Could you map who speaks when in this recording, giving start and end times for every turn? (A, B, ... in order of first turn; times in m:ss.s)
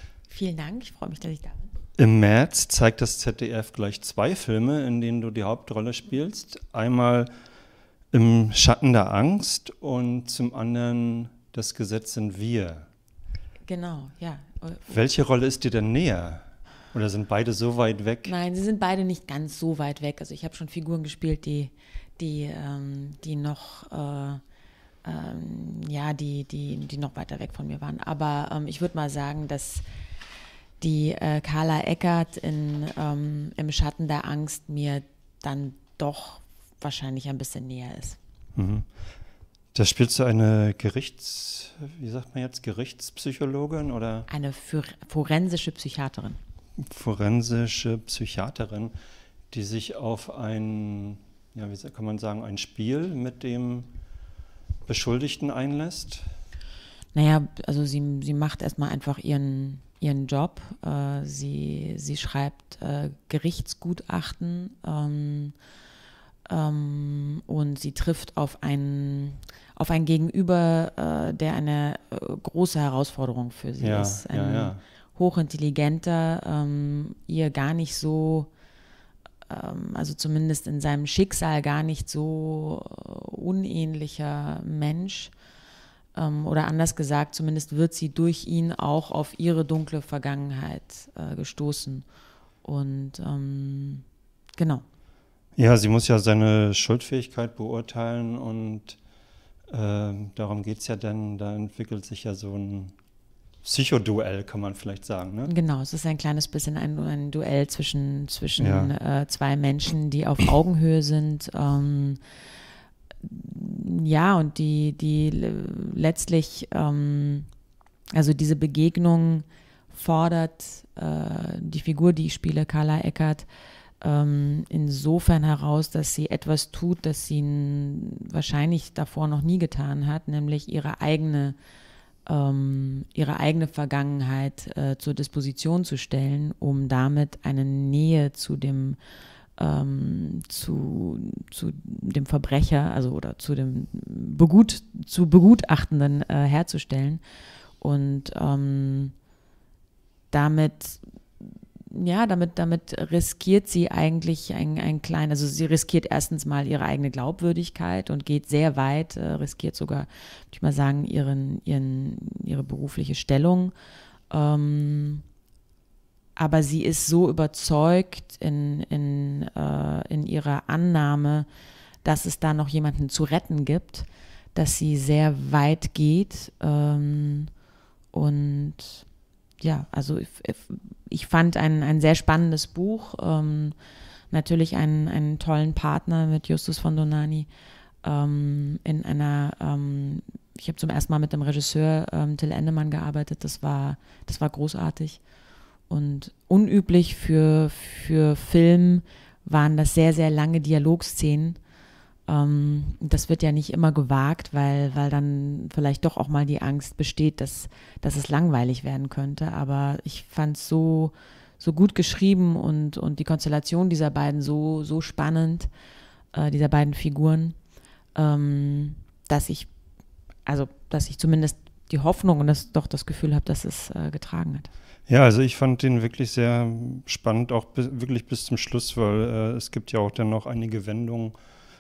0:00.3-0:01.7 A
0:02.0-0:07.3 B
0:08.1-0:12.9 B
0:13.7-0:15.0 A
0:14.9-0:18.3 B
0:18.2-0:24.4 A
0:25.0-0:29.8 A
0:30.8-0:38.2 A
0:38.6-0:38.9 B
0:39.7-0:44.3 B
0:44.3-0:46.4 A
0:46.8-0:48.9 B
0:49.5-0:53.9 B
0:54.9-0:56.3 B
0:57.1-1:05.6 A
1:06.5-1:18.5 A
1:13.8-1:14.8 B
1:19.5-1:25.3 A
1:26.2-1:32.0 A
1:32.6-1:34.0 A
1:34.6-1:34.8 A
1:35.6-1:39.0 B
1:39.7-1:42.9 B
1:43.6-1:45.5 B
1:45.5-1:52.2 A
1:48.6-1:48.9 B
1:53.2-1:57.5 A
1:58.1-2:03.5 A
2:04.0-2:11.6 A
2:12.3-2:19.0 A
2:19.6-2:27.2 A
2:27.8-2:29.1 A
2:30.3-2:31.0 A
2:31.9-2:43.7 A
2:44.3-2:45.2 A
2:46.4-2:51.5 A
2:52.0-2:57.5 A
2:58.1-2:59.0 A
2:59.6-3:03.8 A
3:04.3-3:07.5 A
3:08.0-3:15.2 A
3:15.9-3:21.6 A
3:22.3-3:35.7 A
3:36.3-3:37.6 A
3:38.2-3:39.7 A
3:40.5-3:44.7 A
3:45.1-3:51.4 B